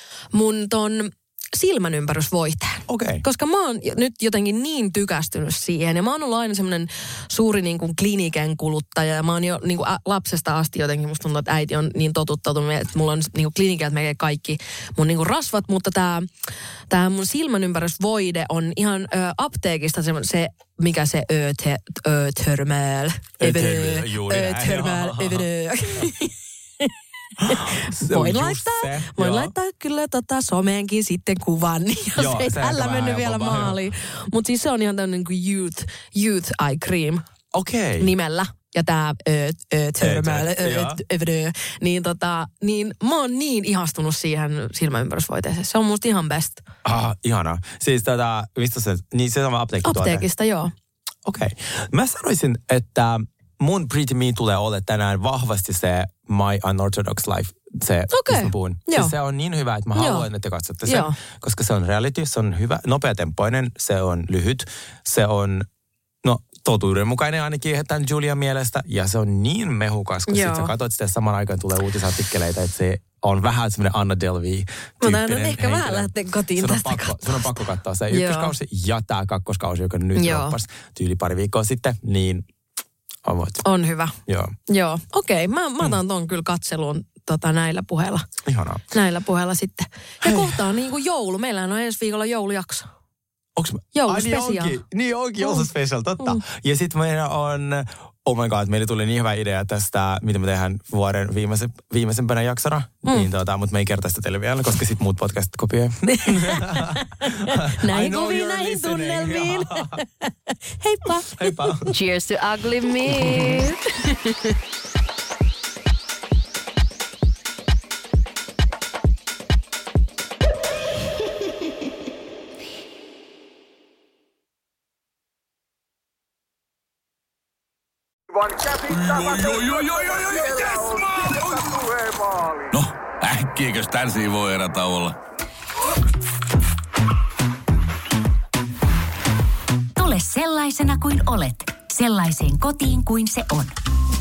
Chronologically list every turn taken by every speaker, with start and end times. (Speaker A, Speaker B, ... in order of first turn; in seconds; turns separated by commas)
Speaker A: 0.3-16.3, Speaker B: 2.9-3.2, Speaker A: 16.9-26.9, Speaker B: 23.4-25.5, Speaker B: 27.4-29.5, Speaker A: 27.4-37.2, Speaker B: 32.1-33.8, Speaker B: 37.5-38.1, Speaker A: 38.0-46.6, Speaker B: 40.0-41.0, Speaker B: 46.9-50.2, Speaker A: 49.8-50.7, Speaker B: 51.2-65.7, Speaker A: 58.1-59.1, Speaker A: 60.0-60.3, Speaker A: 60.9-61.2, Speaker B: 66.2-82.5, Speaker A: 70.3-70.7, Speaker A: 75.0-77.6, Speaker A: 78.1-78.5, Speaker A: 80.2-80.6, Speaker B: 83.2-83.6, Speaker A: 83.6-84.2, Speaker B: 84.3-84.6, Speaker A: 84.7-88.2, Speaker B: 88.5-88.8, Speaker A: 88.9-92.9, Speaker B: 90.2-90.6, Speaker B: 93.6-110.0, Speaker A: 93.9-94.8, Speaker A: 95.4-95.7, Speaker A: 103.0-103.3, Speaker A: 106.1-111.9, Speaker B: 111.3-111.9, Speaker C: 111.9-114.1, Speaker D: 128.7-131.6, Speaker D: 132.7-135.2, Speaker E: 140.0-143.7